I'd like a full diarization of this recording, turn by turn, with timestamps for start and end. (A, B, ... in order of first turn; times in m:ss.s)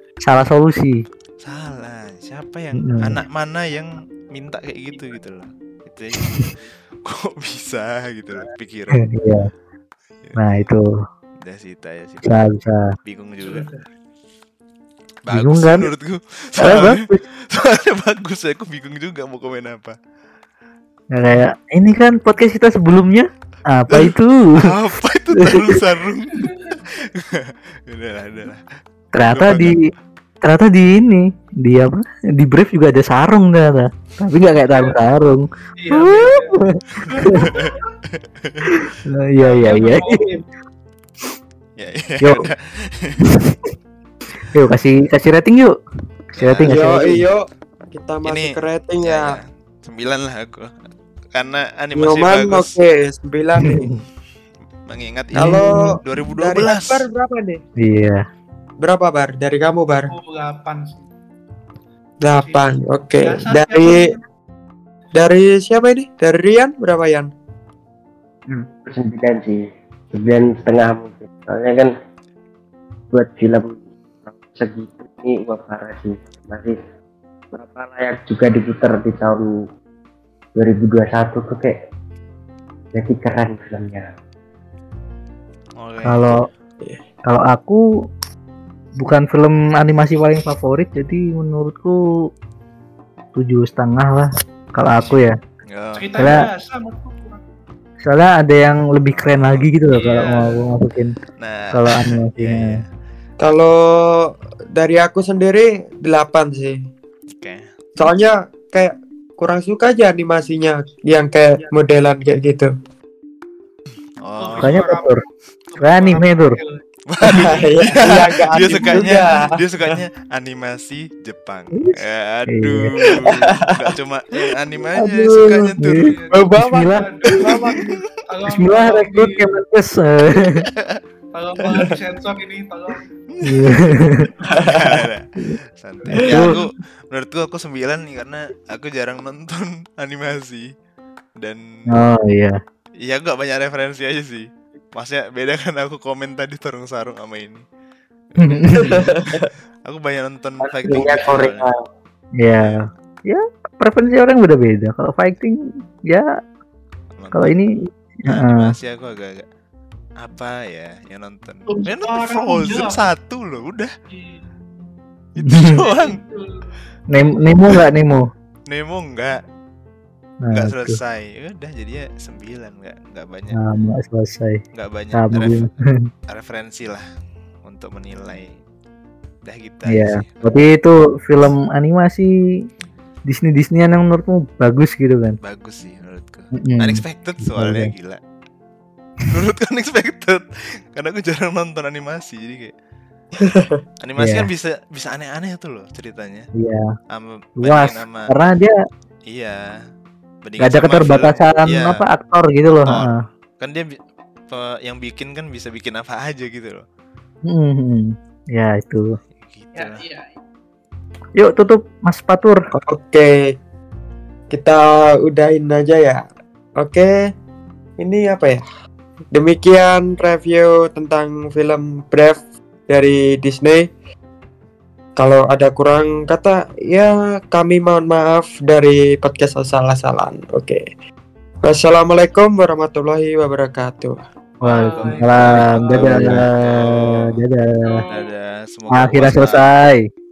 0:00.2-0:01.0 A
0:01.4-0:09.1 B
0:02.8-0:03.2 A
0:09.0-0:09.5 A
0:10.2-0:10.6 B
0:10.4-0:10.9 A
0:11.4-0:12.4 B
0:12.2-0:12.8 A
0:13.0-0:13.6 B
0:13.4-0:13.8 C
0:15.2-0:20.0 B
0:15.3-0:15.9 A
0:16.6-0:17.2 A
0:21.1-0:24.7 A
0:23.9-0:28.6 B
0:25.4-0:25.8 A
0:29.1-0:29.8 A
0:29.3-0:29.7 B
0:30.4-0:37.5 A
0:34.7-0:35.0 C
0:35.8-0:37.8 C
0:37.4-0:37.7 B
0:38.4-0:38.9 B
0:38.7-0:40.2 A
0:39.4-0:40.4 C
0:41.8-0:43.2 B
0:42.2-0:42.5 A
0:43.3-0:43.7 A
0:44.5-0:45.7 A
0:46.3-0:46.6 C
0:46.4-0:47.2 B
0:46.4-0:47.2 A
0:46.7-0:49.4 D
0:48.2-0:52.7 B
0:51.9-0:54.0 D
0:53.7-0:53.9 A
0:54.9-0:57.1 B
0:55.4-0:57.6 D
0:57.8-0:58.2 A
0:58.8-1:00.1 D
1:00.1-1:01.1 C
1:02.2-1:04.1 D
1:02.3-1:04.2 C
1:05.1-1:07.3 D
1:08.5-1:09.6 E
1:10.1-1:11.9 E
1:13.1-1:16.8 E
1:17.5-1:19.4 E
1:20.6-1:21.7 E
1:22.9-1:24.0 E
1:25.8-1:26.3 B
1:26.0-1:26.4 A
1:27.3-1:27.8 A
1:29.0-1:32.0 A
1:33.3-1:35.3 A
1:34.9-1:36.4 B
1:36.0-1:37.4 C
1:36.2-1:36.5 A
1:38.0-1:41.1 A
1:39.2-1:39.7 B
1:39.9-1:40.7 C
1:41.4-1:42.8 B
1:41.7-1:42.7 A
1:43.4-1:46.8 D
1:47.3-1:47.6 B
1:48.0-1:52.7 D
1:54.2-1:54.8 B
1:54.4-1:55.2 C
1:54.6-1:55.2 A
1:55.7-1:56.8 C
1:55.8-1:56.6 A
1:57.1-2:06.2 B
1:57.2-1:59.6 D
2:02.5-2:02.9 A
2:03.0-2:03.8 D
2:05.0-2:07.1 A
2:05.2-2:05.7 D
2:05.9-2:09.5 C
2:06.3-2:07.8 D
2:08.5-2:10.6 A
2:11.3-2:13.0 C
2:13.3-2:15.3 B
2:13.4-2:14.3 A
2:14.5-2:15.0 D
2:15.8-2:20.7 B
2:16.1-2:16.6 D
2:16.1-2:16.6 A
2:21.4-2:22.0 B
2:21.9-2:22.6 A
2:23.0-2:27.6 B
2:28.3-2:31.7 B
2:28.5-2:29.0 A
2:28.7-2:29.5 D
2:30.6-2:31.8 E
2:32.4-2:36.3 A
2:32.6-2:32.8 B
2:37.1-2:37.6 B
2:37.3-2:37.7 A
2:38.3-2:39.4 B
2:38.3-2:38.7 A
2:40.2-2:43.9 B
2:41.7-2:43.0 C
2:44.1-2:44.4 C
2:45.4-2:46.2 B
2:45.4-2:45.8 A
2:45.7-2:46.7 C
2:47.1-2:48.2 A
2:48.7-2:49.4 B
2:50.4-2:51.0 A
2:50.5-2:53.6 B
2:53.6-2:54.6 A
2:54.7-2:55.7 B
2:55.1-2:55.7 A
2:56.3-2:57.0 B
2:57.6-2:58.6 B
2:59.4-3:00.5 B
2:59.9-3:02.3 A
3:03.3-3:05.4 A
3:05.4-3:08.2 B
3:06.6-3:07.9 A
3:09.3-3:12.7 B
3:13.4-3:13.8 D
3:13.4-3:16.4 B
3:14.2-3:14.5 A
3:16.6-3:16.9 A
3:17.1-3:18.3 B
3:17.6-3:18.8 A
3:19.3-3:19.6 B
3:20.4-3:22.0 B
3:20.6-3:23.2 A
3:22.9-3:23.9 B
3:24.5-3:26.8 B
3:27.5-3:29.1 A
3:29.4-3:30.0 B
3:29.8-3:30.3 C
3:31.4-3:32.6 A
3:32.7-3:33.3 D
3:34.5-3:36.2 D
3:36.8-3:37.1 D
3:38.0-3:38.6 D
3:39.3-3:43.9 D
3:45.2-3:50.8 D
3:51.6-3:54.2 D
3:54.6-3:58.0 A
3:54.6-3:57.4 B
3:54.7-3:56.1 C
3:56.1-3:56.4 D
3:57.8-3:58.3 C
3:58.1-3:59.7 B
3:58.9-4:00.0 A